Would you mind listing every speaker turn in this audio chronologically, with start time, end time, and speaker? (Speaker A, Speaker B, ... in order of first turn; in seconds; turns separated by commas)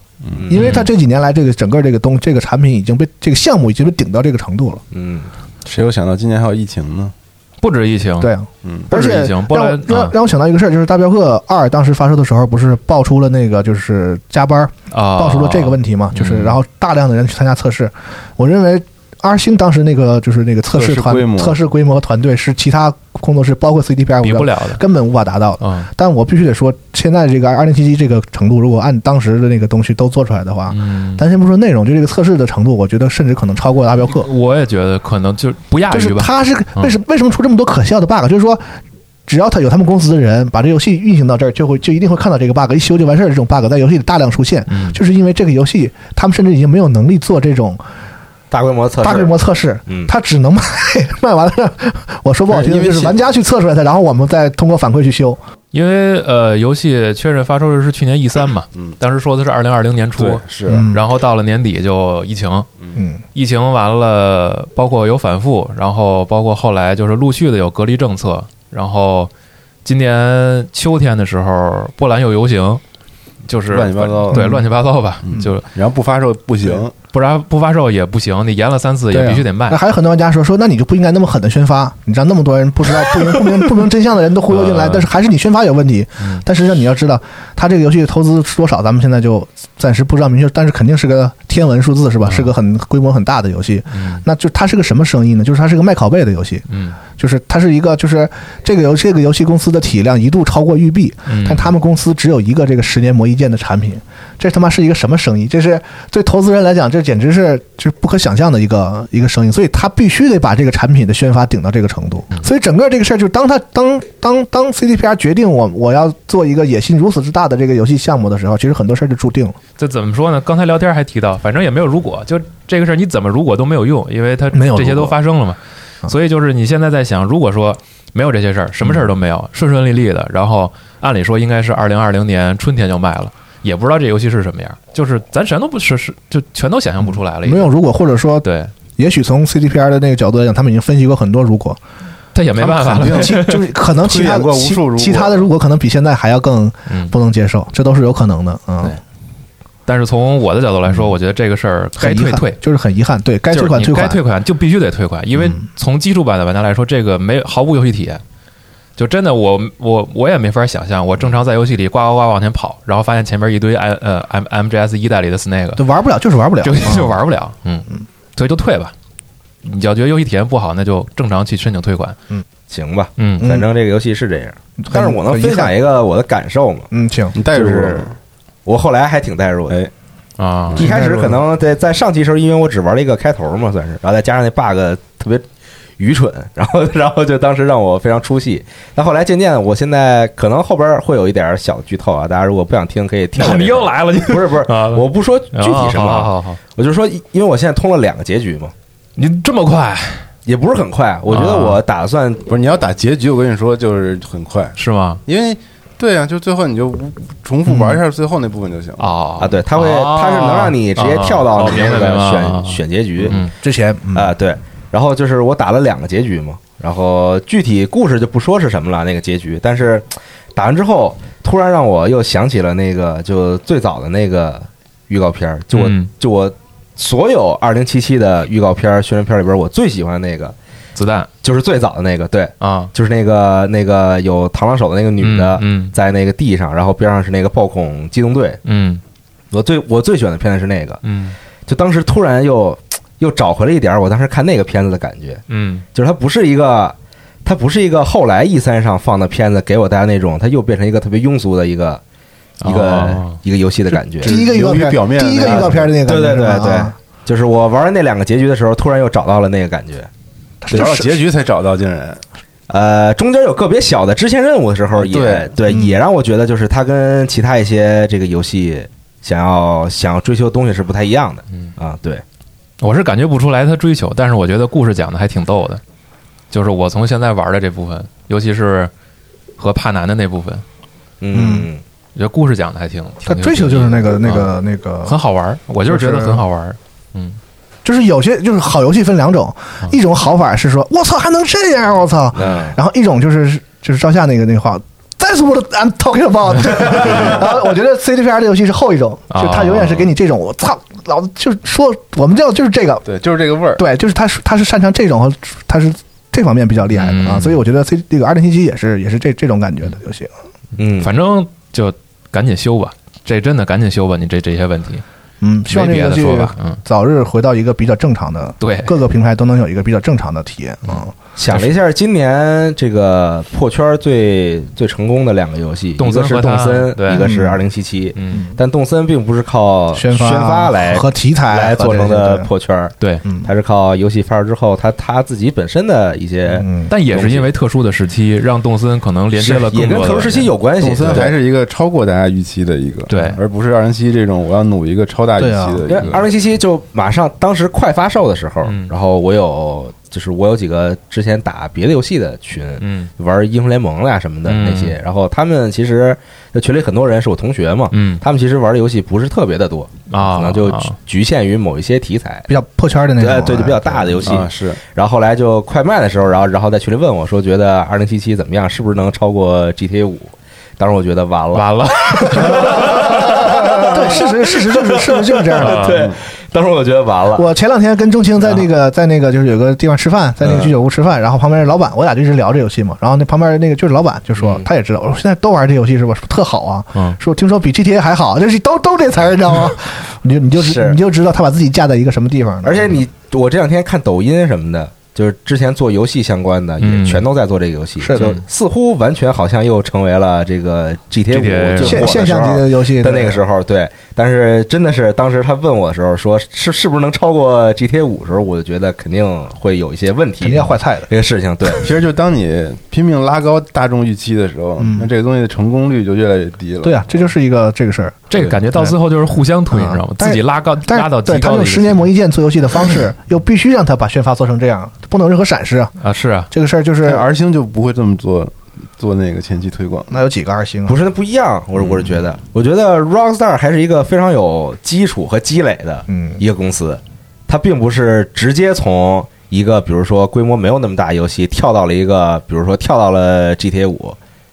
Speaker A: 0.2-0.6, Speaker B: 0.5-4.8, Speaker C: 0.5-0.9, Speaker D: 4.9-5.3, Speaker A: 5.6-7.1, Speaker C: 7.6-8.3, Speaker B: 8.2-34.3, Speaker A: 8.6-8.9, Speaker C: 8.9-10.1, Speaker C: 14.9-16.6, Speaker A: 20.7-21.6, Speaker C: 24.2-24.8, Speaker C: 25.6-25.9, Speaker C: 30.7-31.2, Speaker C: 34.1-37.0, Speaker B: 35.9-38.8, Speaker B: 39.3-47.8, Speaker C: 44.7-45.0, Speaker D: 48.5-49.3, Speaker B: 49.0-55.4, Speaker A: 52.5-53.2, Speaker C: 55.7-62.7, Speaker A: 60.2-60.9, Speaker B: 60.7-61.0, Speaker B: 63.0-63.2, Speaker C: 63.4-69.3, Speaker C: 69.8-72.8, Speaker C: 73.5-75.7, Speaker A: 73.7-74.7, Speaker B: 74.3-74.6, Speaker A: 75.2-76.9, Speaker C: 77.1-79.8, Speaker B: 79.1-119.6, Speaker C: 84.5-85.1, Speaker C: 92.3-92.5, Speaker C: 93.9-94.2, Speaker C: 96.7-97.0, Speaker C: 101.3-101.7, Speaker C: 119.8-137.7, Speaker B: 124.5-125.2, Speaker B: 137.4-141.8, Speaker C: 138.4-138.7, Speaker C: 142.3-143.7, Speaker B: 142.6-148.9, Speaker A: 142.7-143.4, Speaker A: 144.0-145.5, Speaker C: 146.9-147.2, Speaker C: 149.9-152.6, Speaker B: 152.0-154.2, Speaker C: 153.5-158.2, Speaker C: 159.0-165.8, Speaker B: 165.8-167.2, Speaker C: 166.6-168.9, Speaker C: 169.6-172.2, Speaker D: 172.7-176.9, Speaker C: 173.2-173.5, Speaker B: 173.4-173.7, Speaker B: 174.8-175.7, Speaker B: 176.9-177.4, Speaker A: 177.3-178.2, Speaker D: 177.5-178.1, Speaker D: 178.7-179.8, Speaker C: 180.4-181.0, Speaker B: 180.8-181.4, Speaker D: 180.8-185.5, Speaker D: 186.0-198.7, Speaker C: 193.4-196.6, Speaker C: 199.2-200.3, Speaker D: 200.5-202.5, Speaker C: 201.3-201.8, Speaker A: 202.5-204.8, Speaker C: 204.8-205.2, Speaker A: 205.3-209.2, Speaker C: 209.0-213.5, Speaker D: 209.4-213.4, Speaker B: 213.6-214.3, Speaker D: 214.1-230.6, Speaker C: 225.7-226.1, Speaker C: 231.0-231.3, Speaker D: 231.4-238.6, Speaker C: 232.6-232.9, Speaker C: 235.2-235.9, Speaker C: 238.7-239.0, Speaker D: 239.5-241.0, Speaker C: 241.0-241.4, Speaker D: 241.7-245.4, Speaker C: 245.5-245.8, Speaker D: 245.9-252.0, Speaker C: 252.6-253.4, Speaker D: 252.6-254.3, Speaker B: 254.2-256.9, Speaker A: 254.2-255.9, Speaker D: 255.4-260.1, Speaker B: 260.6-261.2, Speaker A: 260.7-262.2, Speaker D: 262.7-272.2, Speaker A: 265.0-265.6, Speaker B: 265.7-266.0, Speaker C: 272.8-275.8, Speaker C: 276.5-278.9, Speaker C: 279.6-280.6, Speaker D: 281.2-281.8, Speaker B: 281.3-281.7, Speaker C: 282.2-284.5, Speaker B: 283.2-285.2, Speaker C: 285.1-287.4, Speaker B: 285.9-286.4, Speaker B: 287.8-303.1, Speaker D: 292.4-292.8, Speaker C: 299.3-300.1, Speaker A: 303.1-303.8, Speaker B: 303.8-310.3, Speaker C: 306.9-307.6, Speaker D: 310.8-311.1, Speaker C: 311.0-315.0, Speaker B: 315.4-321.1, Speaker C: 315.7-316.8, Speaker C: 318.6-319.0, Speaker C: 320.9-321.7, Speaker D: 321.4-337.5, Speaker C: 326.0-327.3, Speaker B: 327.1-327.6, Speaker C: 328.2-328.5, Speaker B: 328.3-328.6, Speaker B: 329.9-332.5, Speaker B: 336.5-336.9, Speaker C: 336.9-340.5, Speaker D: 339.4-341.3, Speaker A: 340.8-346.3, Speaker C: 343.1-343.4, Speaker B: 345.4-345.8, Speaker D: 345.9-362.5, Speaker C: 348.6-348.9, Speaker C: 352.8-353.1, Speaker C: 354.5-354.9, Speaker C: 357.9-358.2, Speaker C: 360.1-361.0, Speaker B: 362.5-364.2, Speaker D: 363.2-377.5, Speaker A: 364.2-364.8, Speaker C: 371.5-373.3, Speaker B: 372.4-376.0, Speaker C: 375.6-376.0, Speaker B: 377.4-393.0, Speaker D: 384.4-384.7, Speaker D: 390.6-391.0, Speaker D: 392.6-411.9, Speaker C: 396.8-397.2, Speaker B: 398.0-398.4, Speaker C: 401.3-402.2, Speaker B: 401.8-403.4, Speaker B: 410.4-411.1, Speaker A: 411.8-417.1, Speaker B: 414.8-415.1, Speaker B: 416.8-419.0, Speaker C: 418.3-422.1, Speaker B: 419.7-425.9, Speaker C: 426.0-426.5, Speaker B: 426.5-427.3, Speaker A: 427.0-430.1, Speaker B: 430.1-431.0, Speaker D: 430.9-444.2, Speaker B: 436.1-436.4